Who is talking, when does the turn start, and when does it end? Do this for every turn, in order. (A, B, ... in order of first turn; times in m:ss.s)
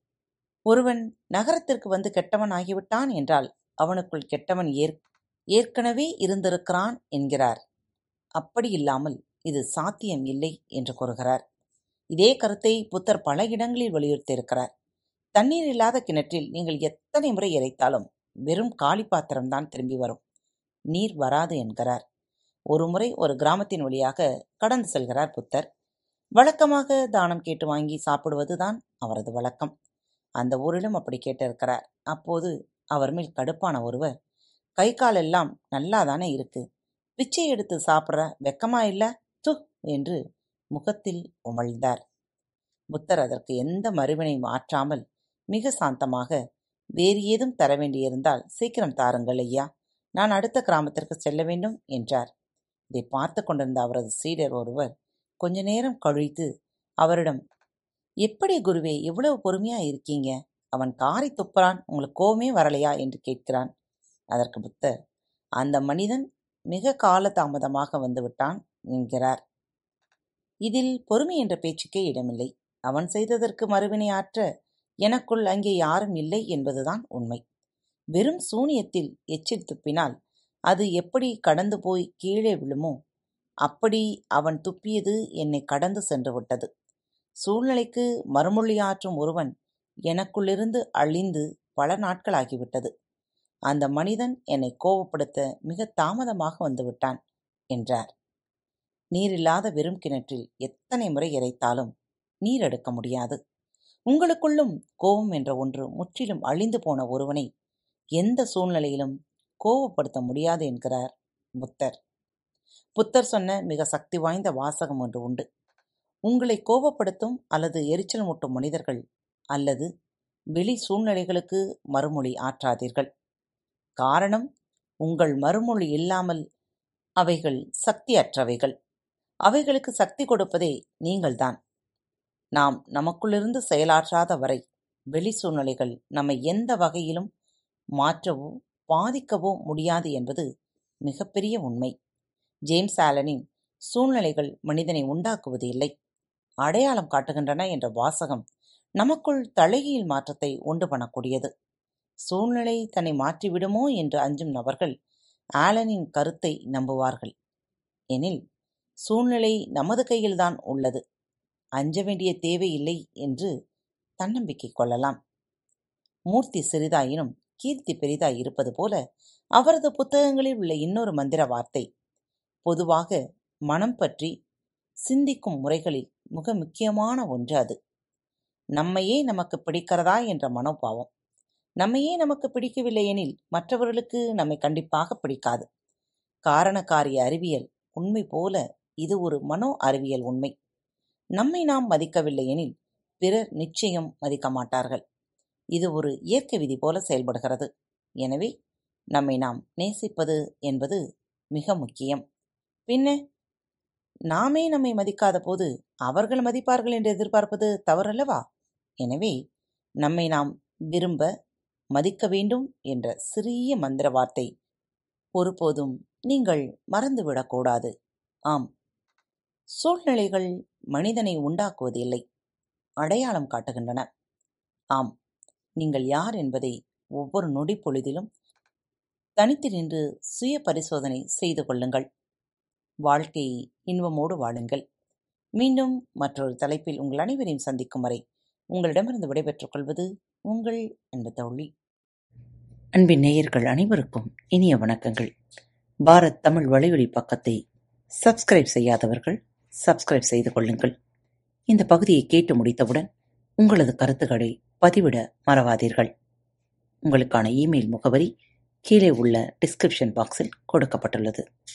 0:00.7-0:05.0 A
0:05.6-0:07.6 A
0:08.4-0:11.4 A
0:12.2-0:14.7 A
0:15.4-0:20.2 A
0:20.9-0:22.0 A
0:22.7-0:25.7 A
0:26.4-0:29.7 A
0:30.4-0:34.1 A
0:34.8-0:36.6 A
0:37.2-0:40.2 A
0:40.7-0:42.0 A
0:42.9-0:45.0 A
0:45.5-0:46.4 A
0:47.0-0:52.3 A
0:52.9-0:54.9 A
0:55.4-0:56.5 A
0:57.0-0:57.4 A
0:58.2-1:03.7 A
1:04.3-1:04.9 A
1:05.6-1:09.4 A
1:10.7-1:14.4 A
1:15.0-1:17.4 A
1:18.2-1:20.1 A
1:20.7-1:23.0 A
1:23.6-1:26.7 A
1:27.4-1:29.5 A
1:30.1-1:32.9 A
1:33.7-1:37.2 A
1:37.7-1:38.1 A
1:39.1-1:41.9 A
1:42.4-1:43.4 A
1:44.1-1:47.5 A
1:48.2-1:52.0 A
1:53.0-1:55.4 A
1:56.3-1:59.0 A
1:59.5-1:59.9 A
2:00.6-2:03.1 A
2:04.0-2:04.5 A
2:05.0-2:06.4 A
2:07.2-2:08.7 A
2:09.5-2:11.6 A
2:12.6-2:14.6 A
2:15.1-2:17.3 A
2:18.0-2:20.5 A
2:21.1-2:21.9 A
2:22.7-2:23.4 A
2:23.9-2:25.9 A
2:26.6-2:28.4 A
2:29.0-2:31.5 A
2:32.3-2:34.9 A
2:35.6-2:37.3 A
2:38.1-2:38.4 A
2:39.1-2:41.0 A
2:41.8-2:43.5 A
2:44.2-2:45.2 A
2:46.3-2:49.0 A
2:49.6-2:51.8 A
2:52.7-2:53.2 A
2:53.7-2:54.3 A
2:55.1-2:57.8 A
2:58.8-3:01.1 A
3:01.8-3:05.6 A
3:06.5-3:10.5 A
3:11.4-3:15.0 A
3:15.8-3:17.7 A
3:18.2-3:18.5 A
3:19.1-3:21.0 A
3:21.5-3:22.2 A
3:22.9-3:23.2 A
3:24.3-3:28.4 A
3:29.0-3:29.4 A
3:30.0-3:31.3 A
3:31.9-3:34.5 A
3:35.4-3:37.9 A
3:39.8-3:42.2 A
3:43.0-3:44.0 A
3:45.8-3:48.3 A
3:49.4-3:52.1 A
3:53.1-3:54.8 A
3:55.6-3:58.2 A
3:58.7-4:01.7 A
4:03.0-4:05.3 A
4:06.1-4:07.6 A
4:08.2-4:10.9 A
4:11.7-4:13.1 A
4:13.6-4:16.1 A
4:17.0-4:18.3 A
4:18.9-4:21.4 A